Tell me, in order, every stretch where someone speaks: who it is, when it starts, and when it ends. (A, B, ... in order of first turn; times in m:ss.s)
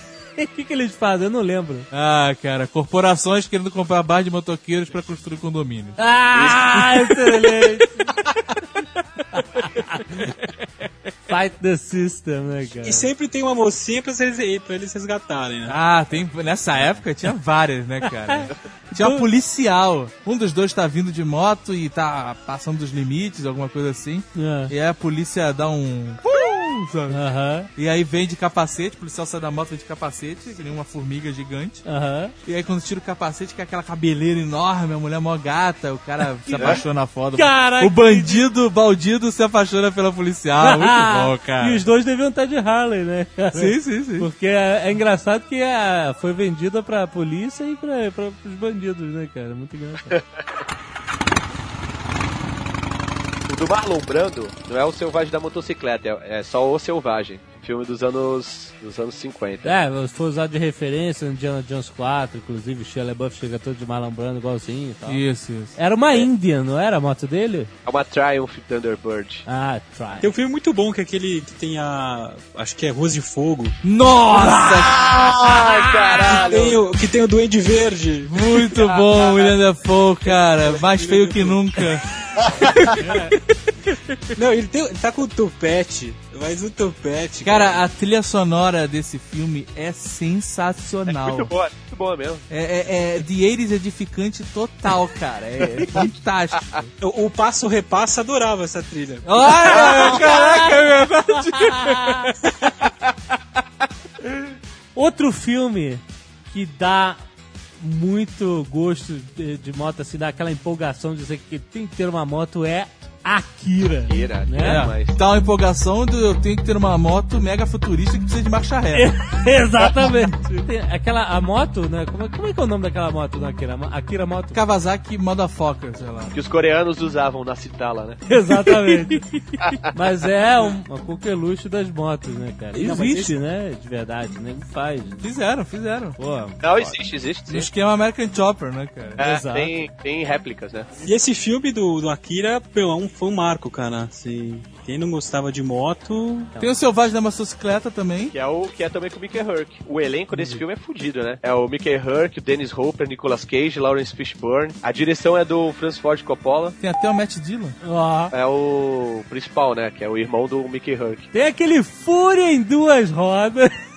0:00.4-0:01.9 A
0:01.9-0:07.7 B
0:06.0-0:07.9 A
0:09.3-0:10.4 A
0:09.6-0:10.5 B
0:11.3-0:13.1 A
0:12.8-0:15.8 C
0:15.7-0:27.2 B
0:18.9-0:19.2 A
0:24.3-0:24.7 A
0:27.1-0:27.7 A
0:27.7-0:31.8 B
0:31.8-0:32.3 A
0:32.4-0:41.8 B
0:36.4-0:36.8 A
0:37.3-0:38.4 A
0:40.6-0:50.2 A
0:43.5-0:44.3 B
0:53.5-0:59.8 D
0:59.6-1:05.2 A
1:05.1-1:05.8 B
1:05.8-1:07.7 A
1:07.8-1:09.4 D
1:09.5-1:10.3 A
1:10.2-1:13.8 C
1:13.8-1:15.1 B
1:14.3-1:16.3 A
1:14.9-1:16.8 D
1:16.3-1:18.3 C
1:18.2-1:22.1 B
1:18.8-1:19.5 D
1:20.6-1:21.6 C
1:22.4-1:22.9 D
1:22.9-1:23.3 C
1:24.3-1:27.8 C
1:27.4-1:31.5 B
1:31.1-1:32.4 D
1:32.5-1:36.9 B
1:37.0-1:40.1 C
1:39.2-1:42.4 B
1:39.7-1:40.6 D
1:40.0-1:40.6 A
1:41.6-1:42.3 A
1:45.0-1:47.2 A
1:47.8-1:54.9 A
1:54.1-1:55.2 D
1:54.6-1:59.1 B
1:58.9-2:04.6 A
2:04.5-2:06.3 B
2:06.3-2:08.2 D
2:08.3-2:15.2 A
2:12.7-2:13.3 C
2:15.2-2:16.2 B
2:16.2-2:16.6 A
2:16.6-2:17.7 D
2:16.7-2:19.2 B
2:19.2-2:19.7 A
2:19.2-2:20.9 D
2:21.0-2:26.5 C
2:26.6-2:28.3 B
2:28.3-2:36.8 D
2:36.8-2:37.8 B
2:37.8-2:38.3 A
2:38.3-2:41.3 D
2:41.3-2:43.8 A